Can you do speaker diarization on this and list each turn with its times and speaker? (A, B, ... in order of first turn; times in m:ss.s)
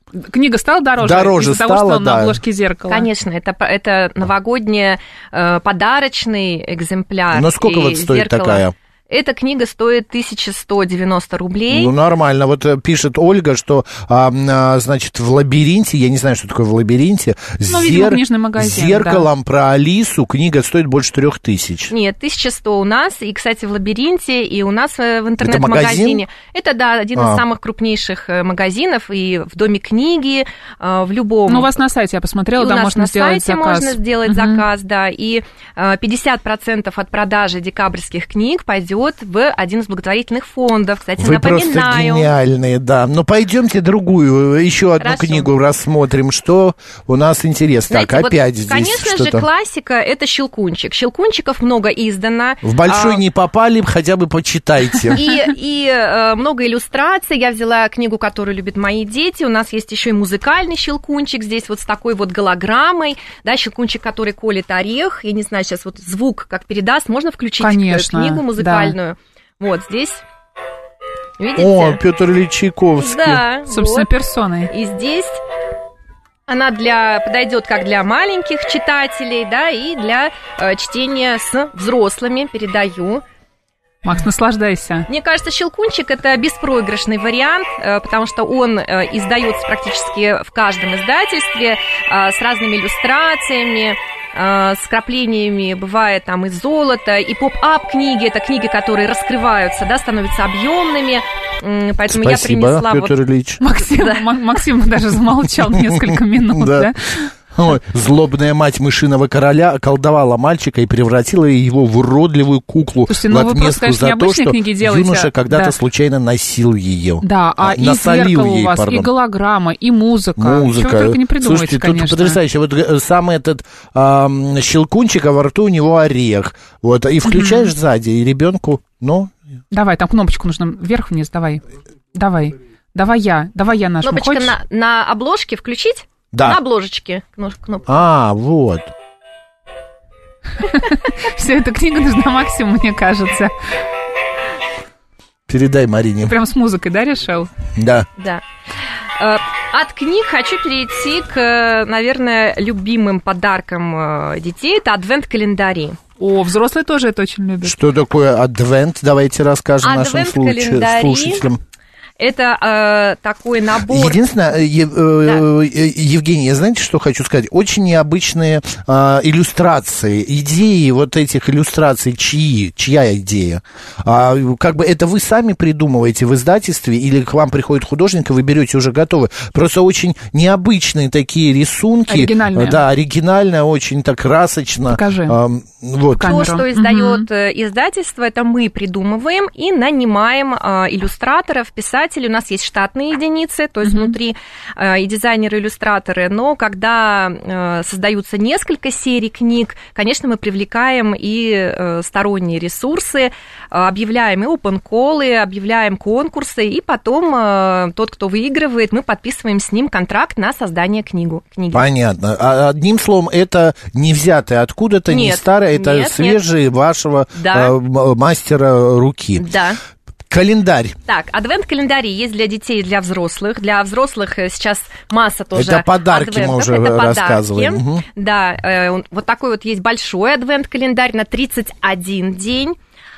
0:00.3-0:03.1 A
0:01.0-0:02.4 B
0:02.9-0:11.9 C
0:07.3-0:08.7 B
0:11.7-0:21.9 B
0:17.7-0:19.3 A
0:21.9-0:31.7 C
0:25.4-0:26.2 B
0:27.2-0:27.4 B
0:31.5-0:34.6 A
0:32.6-0:42.3 C
0:41.2-0:49.4 B
0:45.0-0:45.5 C
0:47.9-0:53.2 C
0:52.6-0:55.2 B
0:55.2-1:10.2 C
1:07.6-1:09.0 A
1:11.4-1:12.0 C
1:11.6-1:13.4 B
1:13.0-1:14.1 C
1:13.7-1:14.7 A
1:14.7-1:15.4 C
1:16.5-1:23.2 C
1:24.0-1:25.1 A
1:25.1-1:43.2 C
1:42.1-1:43.6 B
1:43.6-1:47.3 A
1:43.9-1:44.3 C
1:45.7-1:46.9 B
1:47.5-1:59.1 B
1:53.1-1:55.7 A
1:57.2-2:02.4 A
2:00.4-2:09.3 B
2:07.2-2:07.7 A
2:09.7-2:11.6 A
2:12.1-2:14.5 A
2:14.0-2:18.0 C
2:16.3-2:16.6 B
2:17.9-2:18.9 B
2:20.6-2:23.5 A
2:25.5-2:26.3 B
2:26.2-2:27.5 A
2:27.8-2:28.1 B
2:28.2-2:28.4 C
2:29.2-2:36.0 C
2:36.2-2:37.8 A
2:37.6-2:41.6 B
2:39.8-2:41.4 C
2:42.2-2:44.2 C
2:43.9-3:06.3 B
3:02.1-3:02.8 A
3:04.9-3:05.4 A
3:06.2-3:07.3 A
3:06.2-3:31.8 C
3:13.8-3:14.1 A
3:31.7-3:39.4 B
3:35.1-3:36.4 C
3:37.3-3:37.7 C
3:39.4-3:39.8 C
3:40.3-3:41.0 B
3:41.1-3:52.8 C
3:45.5-3:48.0 B